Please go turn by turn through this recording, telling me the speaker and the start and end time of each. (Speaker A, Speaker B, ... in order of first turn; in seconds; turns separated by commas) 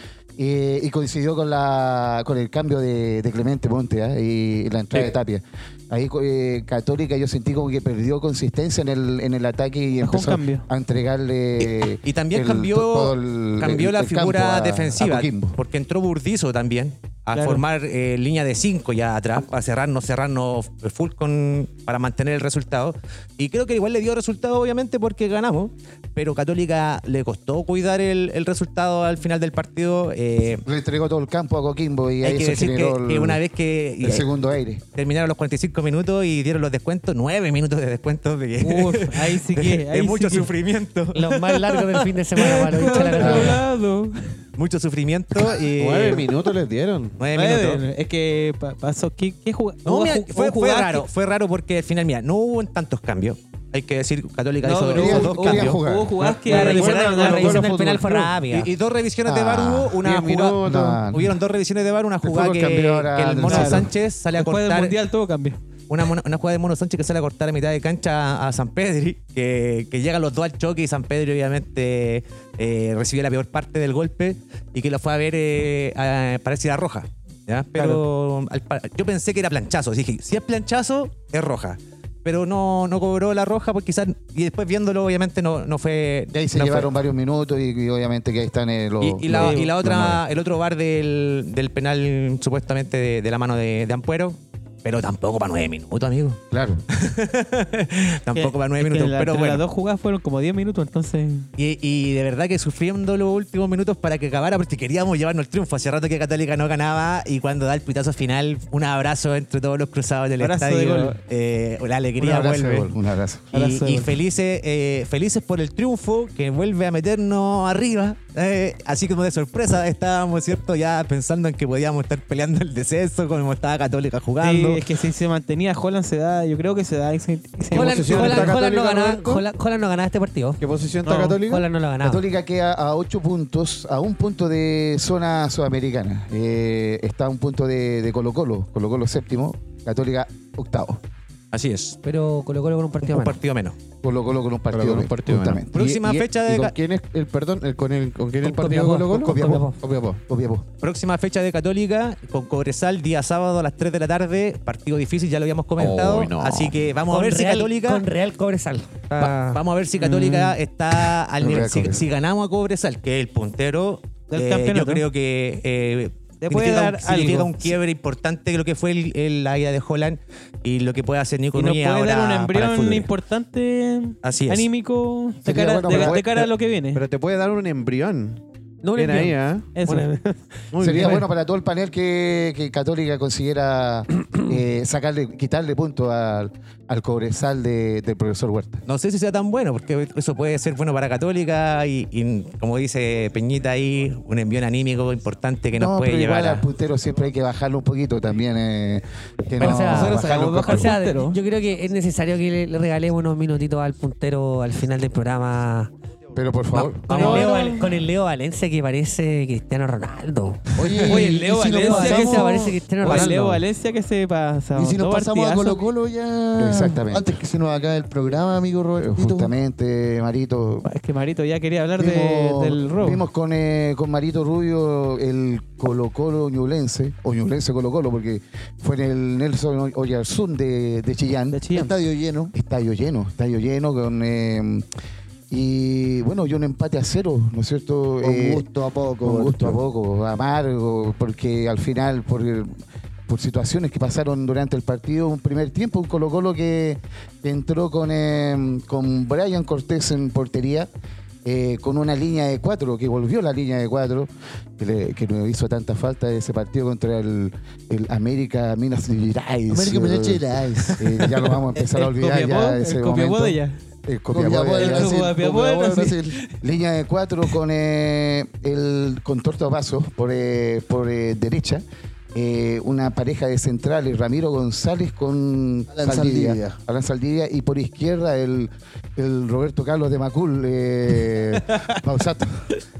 Speaker A: 0.3-15.6, Speaker B: 10.0-10.7, Speaker C: 11.6-30.6, Speaker B: 17.3-17.6, Speaker A: 30.6-33.4, Speaker C: 32.2-34.3, Speaker A: 34.0-34.8, Speaker C: 34.9-43.2, Speaker B: 38.6-40.5, Speaker D: 41.1-43.6, Speaker B: 42.4-44.4, Speaker A: 43.2-43.5, Speaker C: 44.6-46.3, Speaker E: 45.8-47.2, Speaker C: 47.2-47.8, Speaker B: 47.3-51.1, Speaker C: 49.8-55.8, Speaker B: 54.6-58.1, Speaker A: 54.9-56.2, Speaker C: 56.3-57.9, Speaker D: 56.5-58.7, Speaker C: 58.5-64.9, Speaker A: 59.2-60.0, Speaker E: 60.0-61.1, Speaker A: 60.6-61.3, Speaker A: 62.2-63.9, Speaker B: 63.4-65.6, Speaker C: 65.9-86.9, Speaker E: 77.7-78.0, Speaker A: 86.3-90.2, Speaker C: 89.0-96.4, Speaker B: 89.3-89.7, Speaker A: 96.5-96.8, Speaker C: 96.9-99.6, Speaker B: 98.3-101.5, Speaker C: 101.6-112.9, Speaker B: 110.4-111.2, Speaker A: 112.2-113.5, Speaker C: 113.5-124.8, Speaker B: 113.5-114.1, Speaker B: 124.4-128.6, Speaker E: 127.7-129.4, Speaker D: 127.7-130.6, Speaker E: 130.6-131.6, Speaker B: 131.0-131.4, Speaker D: 131.4-132.2, Speaker A: 132.0-141.0, Speaker C: 141.5-142.0, Speaker D: 142.0-143.4, Speaker C: 143.0-143.8, Speaker A: 144.0-145.7, Speaker E: 144.7-150.2, Speaker C: 145.7-146.7, Speaker D: 148.4-149.8, Speaker A: 149.1-149.7, Speaker A: 150.3-150.7, Speaker C: 150.8-158.0, Speaker E: 155.8-156.8, Speaker D: 157.1-159.6, Speaker C: 159.2-173.1, Speaker B: 160.0-160.6, Speaker A: 161.4-162.0, Speaker B: 164.3-165.0, Speaker B: 166.4-167.7, Speaker B: 171.5-177.0, Speaker C: 174.2-174.7, Speaker A: 175.4-176.2, Speaker E: 175.9-178.4, Speaker D: 178.8-180.4, Speaker E: 178.9-179.7, Speaker B: 179.8-180.1, Speaker E: 180.7-181.2, Speaker A: 180.8-188.8, Speaker C: 188.9-196.7, Speaker A: 195.7-200.9, Speaker B: 199.6-201.4, Speaker D: 199.6-205.9, Speaker A: 206.3-207.1, Speaker D: 206.8-213.6, Speaker C: 206.8-207.6, Speaker B: 207.1-208.0, Speaker F: 210.8-212.9, Speaker A: 210.8-211.3, Speaker B: 211.1-215.8, Speaker F: 214.7-219.5, Speaker A: 216.6-217.4, Speaker A: 219.0-220.9, Speaker B: 220.8-223.2, Speaker A: 222.0-231.6, Speaker B: 231.5-231.9, Speaker F: 231.7-232.5, Speaker A: 232.5-234.8, Speaker A: 235.5-238.7, Speaker F: 238.2-239.8, Speaker A: 239.2-250.9, Speaker A: 251.4-265.3, Speaker F: 259.7-261.3, Speaker B: 261.8-263.8, Speaker F: 264.3-266.4, Speaker B: 264.7-266.5, Speaker A: 266.6-282.6, Speaker F: 275.9-276.8